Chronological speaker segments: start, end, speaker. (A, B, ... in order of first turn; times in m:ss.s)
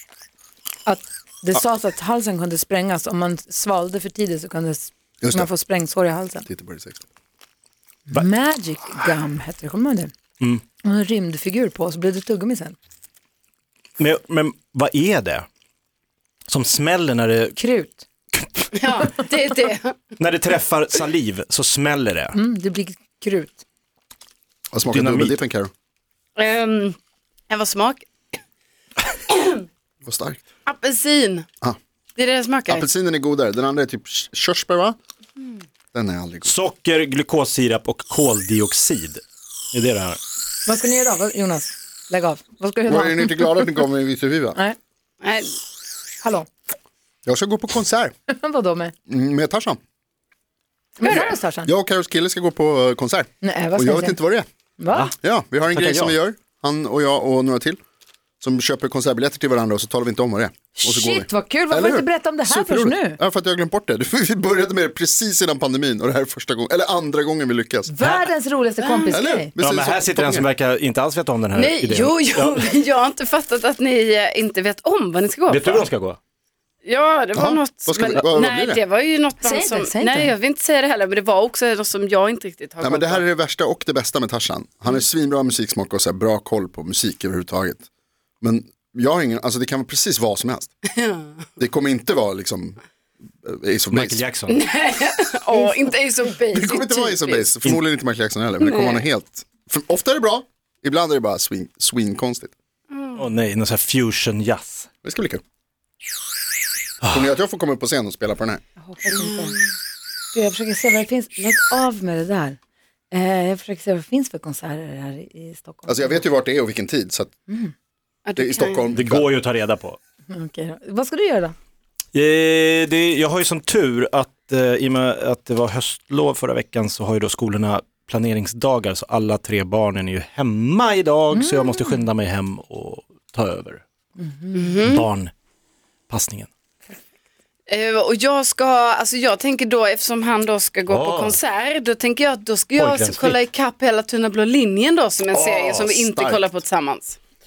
0:00.8-0:06.4 A
0:05.2-0:05.5 B
0:06.4-0:07.0 B
0:08.1-0:10.1 A
0:10.8-0:12.8 A
0:14.0-0:15.4 C
0:16.5-0:17.6 C
0:17.6-0:18.0 A
0:18.7-0:20.1 D
0:20.2-0:22.4 C
0:22.3-0:23.6 A
0:24.7-0:25.7 B
0:24.9-0:25.4 C
0:26.4-0:27.0 D
0:27.5-0:28.4 D
0:29.3-0:29.6 D
0:30.0-0:30.4 B
0:30.6-0:31.5 D
0:32.2-0:32.9 D
0:32.6-0:35.0 B
0:35.9-0:36.5 B
0:36.4-0:40.2 C
0:40.6-0:43.8 A
0:42.9-0:44.6 B
0:45.2-0:45.5 D
0:46.2-0:46.5 A
0:47.2-0:48.1 B
0:48.3-0:48.9 A
0:49.1-0:49.8 B
0:51.0-0:51.7 A
0:51.0-0:51.3 D
0:51.1-0:54.5 B
0:53.4-0:54.2 A
0:54.8-0:55.1 A
0:55.2-0:57.8 B
0:55.7-0:56.2 C
0:58.4-1:07.9 B
1:00.7-1:03.2 A
1:07.9-1:09.5 A
1:08.8-1:09.2 D
1:09.1-1:10.5 B
1:09.6-1:12.7 C
1:11.5-1:15.9 D
1:15.5-1:16.2 C
1:16.8-1:23.2 D
1:17.3-1:18.8 B
1:19.4-1:20.3 A
1:22.8-1:27.8 B
1:28.4-1:30.7 B
1:31.0-1:31.3 D
1:31.6-1:32.8 B
1:33.4-1:34.2 B
1:33.9-1:34.6 C
1:34.5-1:37.5 D
1:36.5-1:42.5 B
1:38.6-1:39.0 D
1:42.9-1:43.2 D
1:43.1-1:44.9 C
1:45.0-1:45.4 B
1:47.0-1:47.3 C
1:47.1-1:48.6 B
1:48.8-1:49.6 A
1:49.1-1:49.5 D
1:50.3-1:52.6 A
1:53.1-1:56.2 A
1:55.9-1:57.3 B
1:57.5-1:57.7 A
1:58.2-1:58.9 D
1:58.4-1:59.3 B
1:58.9-2:00.0 C
2:00.3-2:01.5 A
2:02.1-2:13.8 C
2:11.3-2:12.0 A
2:14.2-2:14.8 A
2:14.5-2:15.0 D
2:14.8-2:15.3 C
2:16.1-2:16.5 C
2:17.7-2:27.2 D
2:20.9-2:21.4 C
2:22.8-2:23.4 C
2:25.3-2:26.5 B